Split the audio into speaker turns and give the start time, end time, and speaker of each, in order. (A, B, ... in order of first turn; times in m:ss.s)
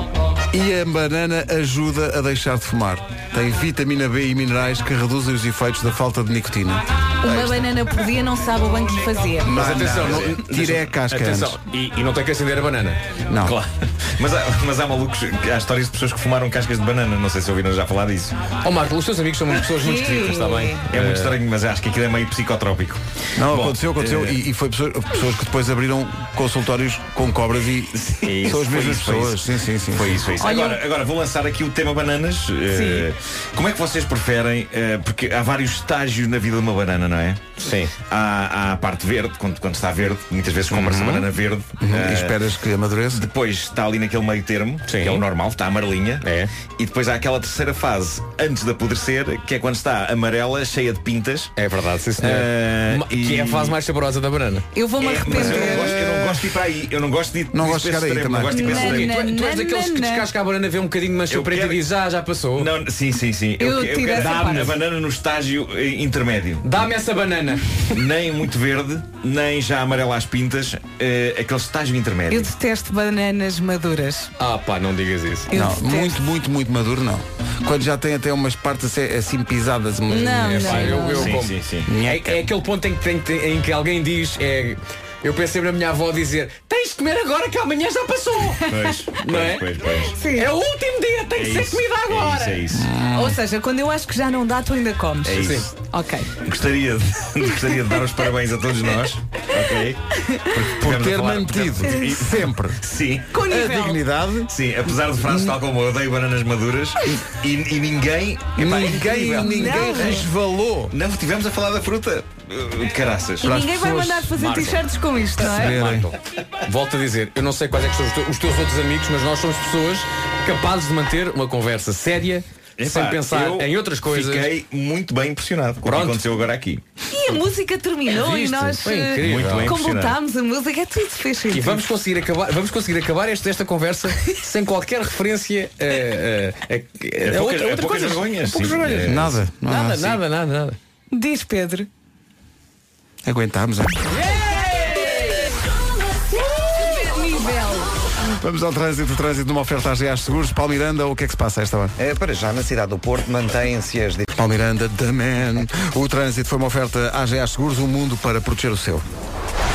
0:00.5-0:07.6 A
0:07.2-0:09.8 B
0:09.4-0:11.6 A
0:09.5-0:13.0 C
0:13.3-0:13.6 A
0:13.4-0:18.4 D
0:18.6-0:21.4 C
0:19.8-0:20.8 B
0:20.9-0:24.4 D
0:23.4-0:30.2 A
0:27.9-0:42.4 D
0:30.4-0:30.8 B
0:32.7-0:33.0 B
0:37.6-0:37.9 C
0:40.7-0:41.3 C
0:41.8-0:43.3 A
0:43.1-0:51.5 D
0:44.9-0:45.2 C
0:46.2-0:46.5 C
0:51.6-0:54.7 C
0:52.2-0:53.8 D
0:54.7-0:56.2 B
0:55.0-0:59.2 D
0:57.5-0:58.7 A
0:58.5-1:00.3 B
0:58.6-1:02.7 C
1:01.3-1:01.9 D
1:02.6-1:06.7 D
1:03.6-1:04.8 B
1:04.2-1:04.7 C
1:06.6-1:08.1 C
1:07.9-1:12.5 D
1:12.3-1:14.3 B
1:14.4-1:15.5 C
1:15.5-1:16.2 B
1:15.5-1:21.2 A
1:20.1-1:21.4 B
1:20.4-1:32.6 C
1:21.1-1:21.9 D
1:21.9-1:22.4 A
1:28.7-1:30.2 D
1:30.2-1:30.5 B
1:31.4-1:32.9 D
1:32.7-1:33.4 A
1:33.1-1:36.3 B
1:35.2-1:35.7 D
1:35.3-1:35.7 C
1:36.4-1:43.4 D
1:40.2-1:40.5 B
1:40.8-1:42.8 A
1:43.3-1:44.0 B
1:43.4-1:44.5 A
1:44.5-1:49.5 D
1:45.3-1:45.5 A
1:48.6-1:50.9 A
1:49.1-1:50.3 B
1:50.9-1:53.5 D
1:53.4-1:55.8 B
1:53.4-1:54.3 A
1:54.4-1:54.8 C
1:55.4-2:04.6 C
1:55.5-1:56.1 A
2:02.8-2:06.8 D
2:05.8-2:06.3 C
2:07.1-2:11.8 B
2:08.1-2:09.8 C
2:09.2-2:10.2 D
2:11.5-2:20.8 C
2:17.2-2:19.4 D
2:19.0-2:20.2 A
2:21.1-2:21.9 B
2:23.2-2:24.0 A
2:24.1-2:25.5 C
2:24.4-2:25.3 B
2:26.3-2:27.9 B
2:28.4-2:32.0 A
2:32.0-2:34.3 E
2:34.3-2:39.0 A